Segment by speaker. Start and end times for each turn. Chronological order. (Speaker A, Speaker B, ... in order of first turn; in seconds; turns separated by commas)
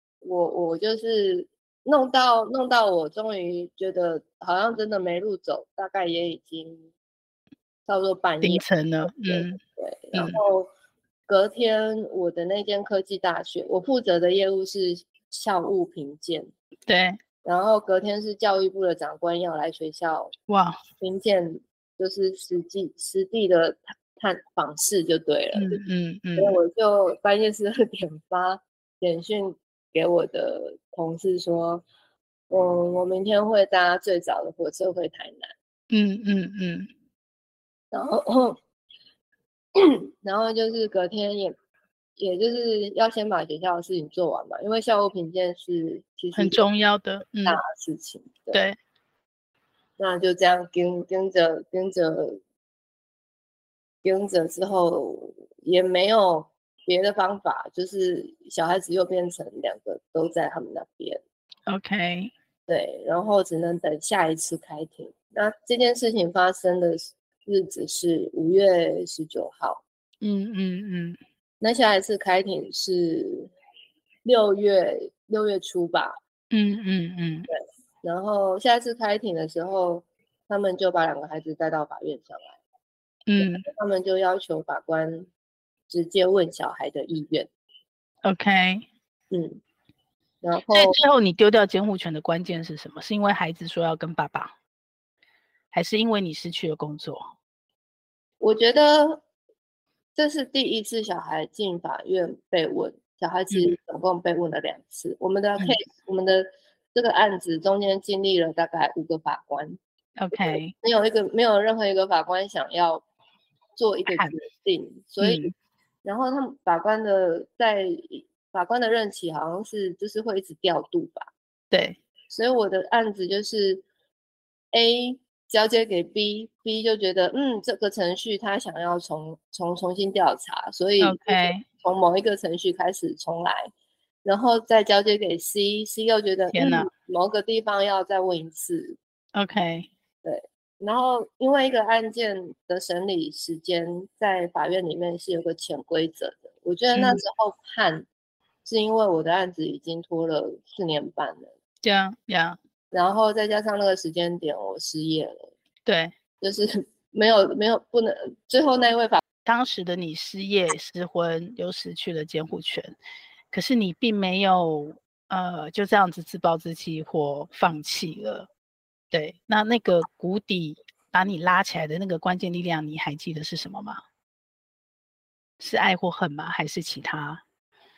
Speaker A: 0.2-6.9, Speaker A: 7.9-10.7, Speaker B: 8.4-9.6, Speaker B: 10.1-10.4, Speaker A: 11.3-16.5, Speaker B: 16.9-17.2, Speaker A: 17.4-20.3, Speaker B: 20.5-20.8, Speaker A: 21.0-25.8, Speaker B: 25.5-26.6, Speaker A: 26.4-31.8, Speaker A: 32.5-35.5, Speaker B: 35.9-36.9, Speaker A: 37.9-38.6, Speaker A: 39.8-41.6, Speaker A: 42.2-46.6, Speaker B: 46.4-47.6, Speaker A: 47.5-48.6, Speaker B: 48.5-48.8, Speaker A: 50.0-52.4, Speaker A: 54.0-61.2, Speaker B: 61.7-62.3, Speaker A: 62.7-69.8, Speaker B: 70.2-71.2, Speaker A: 71.6-73.5, Speaker A: 74.2-76.2, Speaker B: 76.5-77.5, Speaker A: 77.5-82.6, Speaker B: 83.3-83.7, Speaker A: 83.4-85.3, Speaker A: 85.9-87.5, Speaker B: 88.2-88.9, Speaker A: 89.3-89.6, Speaker A: 90.4-91.0, Speaker B: 90.7-94.5, Speaker B: 95.7-97.3, Speaker A: 98.4-99.2, Speaker A: 100.2-109.8, Speaker B: 103.5-103.8, Speaker B: 110.2-110.8, Speaker A: 110.3-113.0, Speaker A: 113.8-115.5, Speaker B: 114.1-114.4, Speaker B: 115.2-115.5, Speaker A: 116.0-121.3, Speaker B: 121.7-122.0, Speaker A: 122.3-123.8, Speaker A: 124.7-133.7, Speaker B: 131.0-131.7, Speaker A: 134.2-139.0, Speaker B: 136.5-136.9, Speaker B: 139.3-139.9, Speaker A: 140.2-148.1, Speaker B: 146.9-147.2, Speaker A: 148.7-151.5, Speaker B: 151.8-152.6, Speaker A: 152.9-155.5, Speaker B: 155.9-156.1, Speaker A: 156.4-159.2, Speaker B: 159.4-163.0, Speaker B: 163.5-168.5, Speaker B: 169.1-174.0, Speaker B: 175.6-177.4